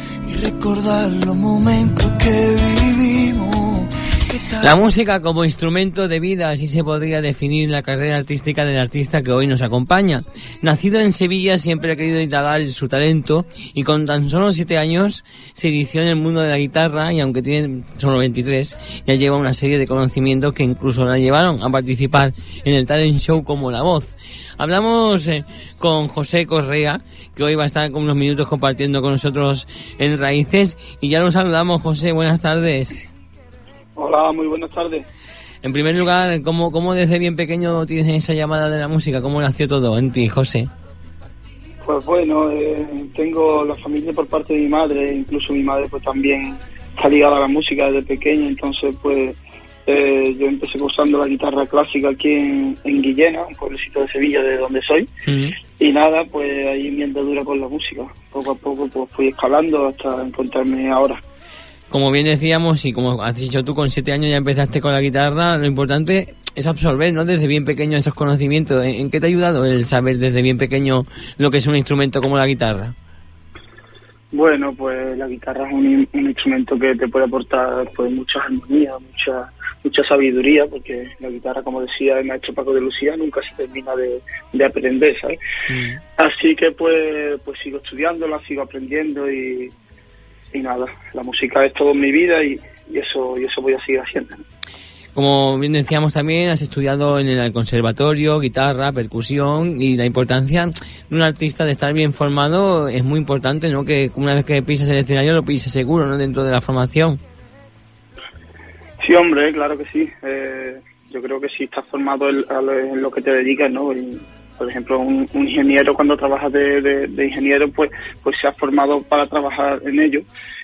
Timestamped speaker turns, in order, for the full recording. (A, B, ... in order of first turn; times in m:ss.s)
0:00.2-0:04.8 A
0:04.6-0:33.1 B
0:34.0-0:35.0 C
0:35.6-0:40.7 B
0:41.8-0:55.1 C
0:55.3-0:55.6 B
0:55.8-1:01.2 C
1:01.9-1:12.9 B
1:14.3-1:25.4 C
1:25.7-1:26.0 B
1:26.2-1:29.7 C
1:30.5-1:34.4 C
1:35.2-1:47.2 B
1:49.0-2:00.2 C